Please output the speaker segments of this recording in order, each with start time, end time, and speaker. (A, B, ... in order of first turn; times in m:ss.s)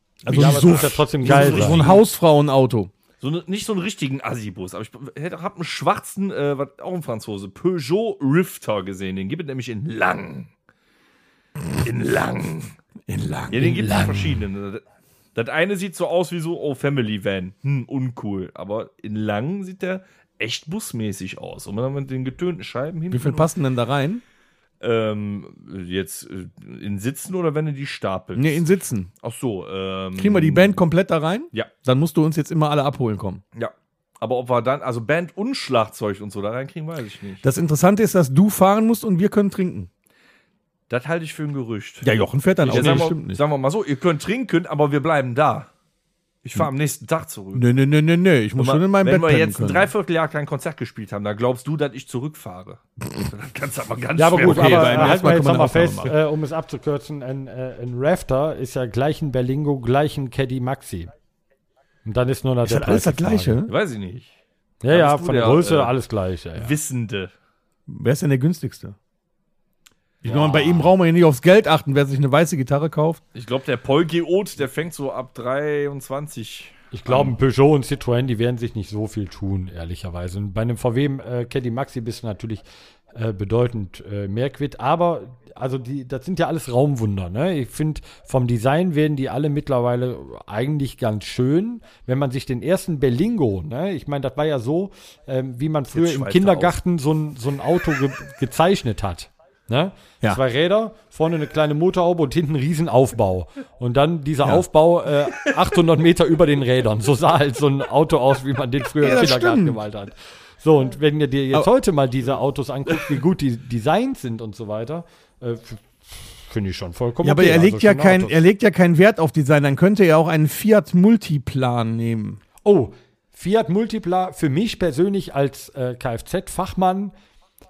0:00.2-0:02.9 A
0:00.3-0:02.0 B
0:00.3-0:01.8 C
0:03.2-0:10.5 B
0:11.7-0:12.8 B
0:13.1-0:14.4 A
0:13.5-0:14.8 B
0:15.4-0:23.5 B
0:23.1-0:24.2 A
0:24.8-0:28.6 B
0:28.4-0:29.1 A
0:29.2-0:30.8 B
0:30.2-0:33.4 A
0:33.6-0:37.4 B
0:37.4-0:39.9 A
0:40.9-0:42.1 B
0:42.0-0:43.4 A
0:42.6-0:45.7 B
0:42.7-0:43.1 C
0:46.4-0:47.7 B
0:47.6-0:49.9 A
0:48.6-0:55.4 B
0:54.2-1:01.1 C
0:54.4-0:56.1 A
1:02.0-1:03.6 C
1:02.6-1:03.7 A
1:03.7-1:04.3 B
1:04.8-1:06.7 C
1:04.9-1:05.9 B
1:06.6-1:07.3 B
1:07.9-1:09.0 A
1:10.2-1:13.2 A
1:10.2-1:10.9 C
1:13.4-1:17.3 B
1:16.9-1:58.4 C
1:35.9-1:36.8 B
1:49.0-1:49.8 A
1:57.2-2:02.4 A
2:02.6-2:07.1 C